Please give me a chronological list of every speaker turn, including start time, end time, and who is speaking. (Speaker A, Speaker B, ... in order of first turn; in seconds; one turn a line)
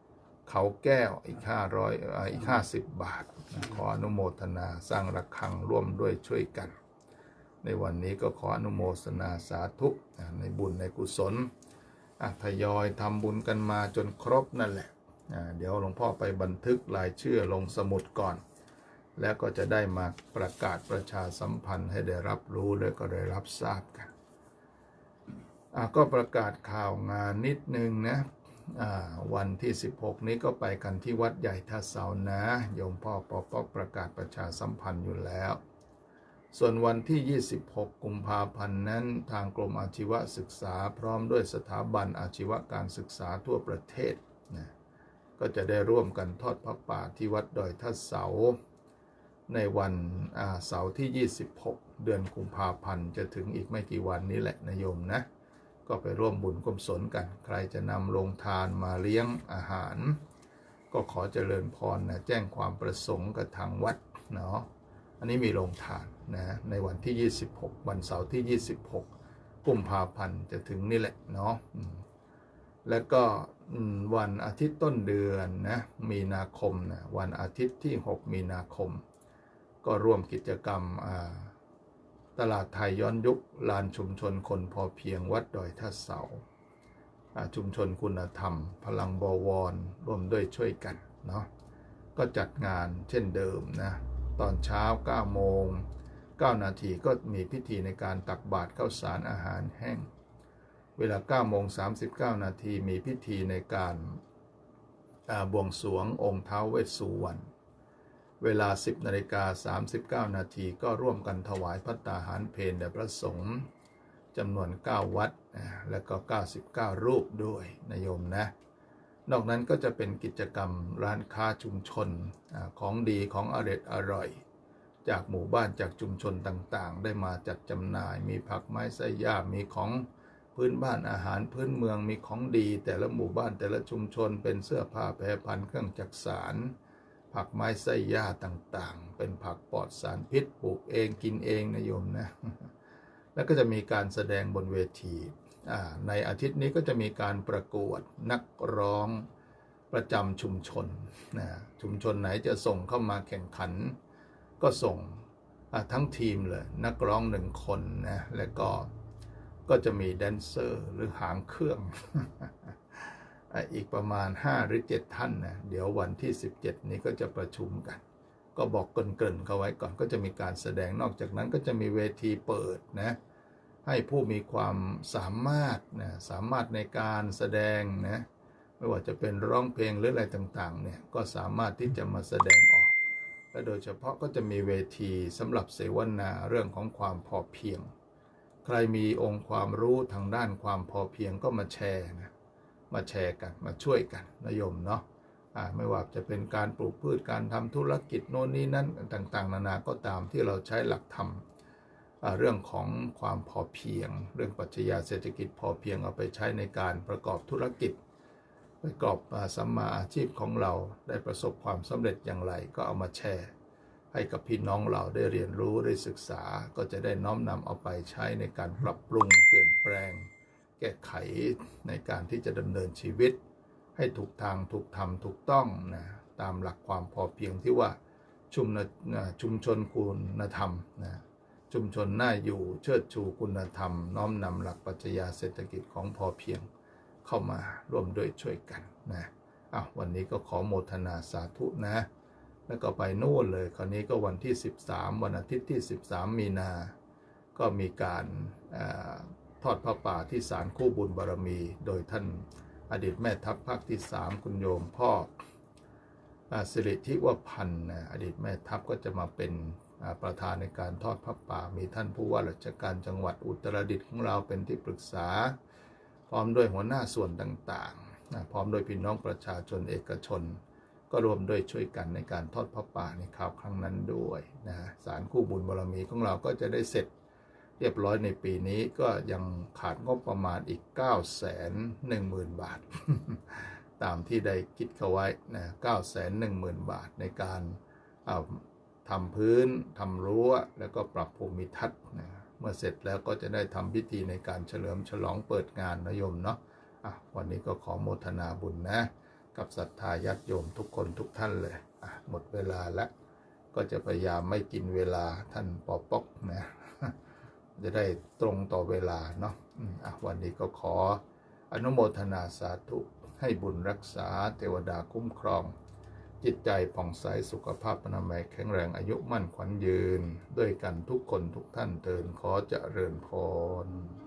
Speaker A: 0.5-6.7
Speaker A: 7.6-11.5
Speaker A: 12.2-18.4
Speaker A: 19.1-24.1
Speaker A: 25.7-35.6
Speaker A: 36.5-44.7
Speaker A: 45.4-48.6
Speaker A: 49.5-55.2
Speaker A: 55.9-60.2
Speaker A: 60.9-64.7
Speaker A: 65.2-69.1
Speaker A: 69.6-72.0
Speaker A: 72.8-79.0
Speaker A: 79.8-81.5
Speaker A: 82.3-86.4
Speaker A: 87.3-91.5
Speaker A: 92.1-95.8
Speaker A: 96.4-100.1
Speaker A: 101.0-104.2
Speaker A: 105.3-107.4
Speaker A: 108.4-113.7
Speaker A: 114.3-118.5
Speaker A: 119.3-124.4
Speaker A: 125.0-136.7
Speaker A: 137.3-142.7
Speaker A: 143.3-149.3
Speaker A: 149.9-154.0
Speaker A: 154.6-158.9
Speaker A: 159.7-168.0
Speaker A: 168.5-173.2
Speaker A: 173.8-178.2
Speaker A: 178.8-182.9
Speaker A: 183.5-187.9
Speaker A: 188.6-192.3
Speaker A: 192.9-201.4
Speaker A: 202.2-208.0
Speaker A: 208.8-213.5
Speaker A: 214.1-223.4
Speaker A: 223.9-227.9
Speaker A: 228.5-236.7
Speaker A: 237.2-242.1
Speaker A: 242.7-246.9
Speaker A: 247.5-255.3
Speaker A: 256.5-265.6
Speaker A: 266.3-270.6
Speaker A: 271.1-277.1
Speaker A: 277.8-303.1
Speaker A: 303.7-307.1
Speaker A: 307.8-315.7
Speaker A: 316.4-324.2